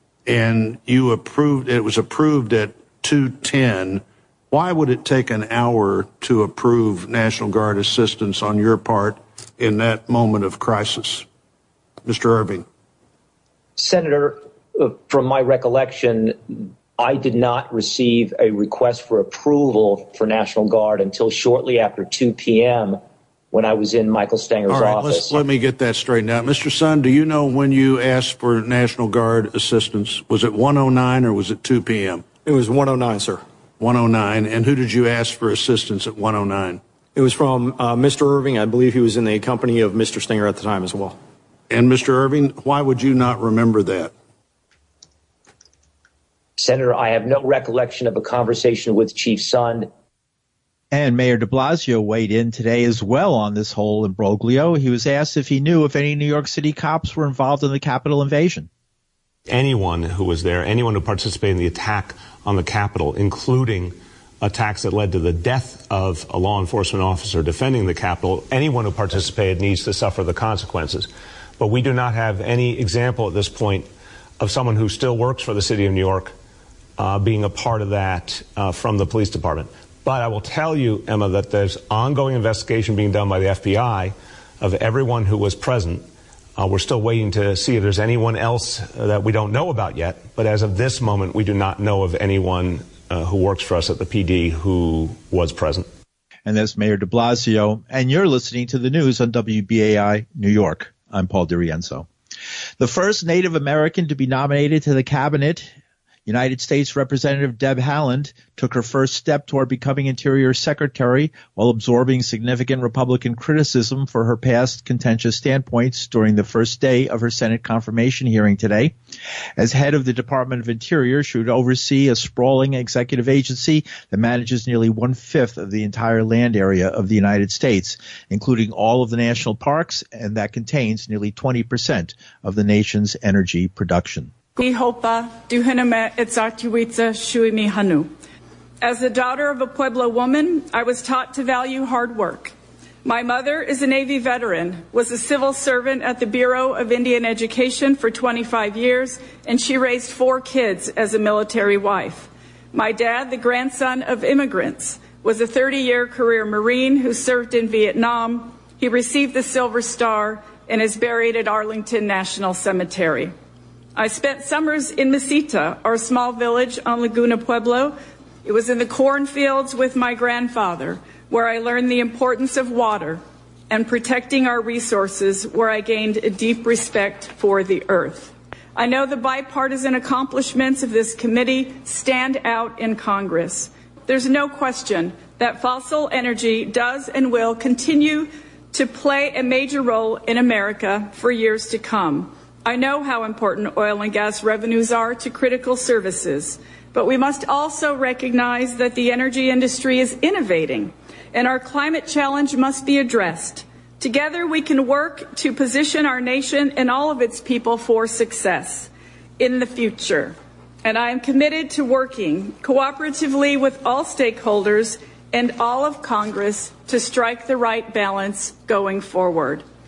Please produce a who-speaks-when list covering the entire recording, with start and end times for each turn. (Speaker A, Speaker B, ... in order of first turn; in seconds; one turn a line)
Speaker A: 0.3-11.3
Speaker A: 12.1-12.7
Speaker B: 13.8-23.0
Speaker B: 23.5-25.4
Speaker A: 24.7-32.2
Speaker C: 32.5-33.4
Speaker A: 33.8-36.8
Speaker C: 37.1-41.2
Speaker A: 41.7-44.1
Speaker B: 46.6-49.9
Speaker D: 50.9-58.7
Speaker E: 59.5-73.9
Speaker E: 74.4-76.3
Speaker E: 77.0-86.0
Speaker E: 86.6-95.9
Speaker D: 96.5-102.1
Speaker D: 102.8-105.7
Speaker D: 106.3-118.9
Speaker D: 119.6-134.3
Speaker F: 134.6-138.1
Speaker F: 138.8-163.3
Speaker F: 164.0-219.6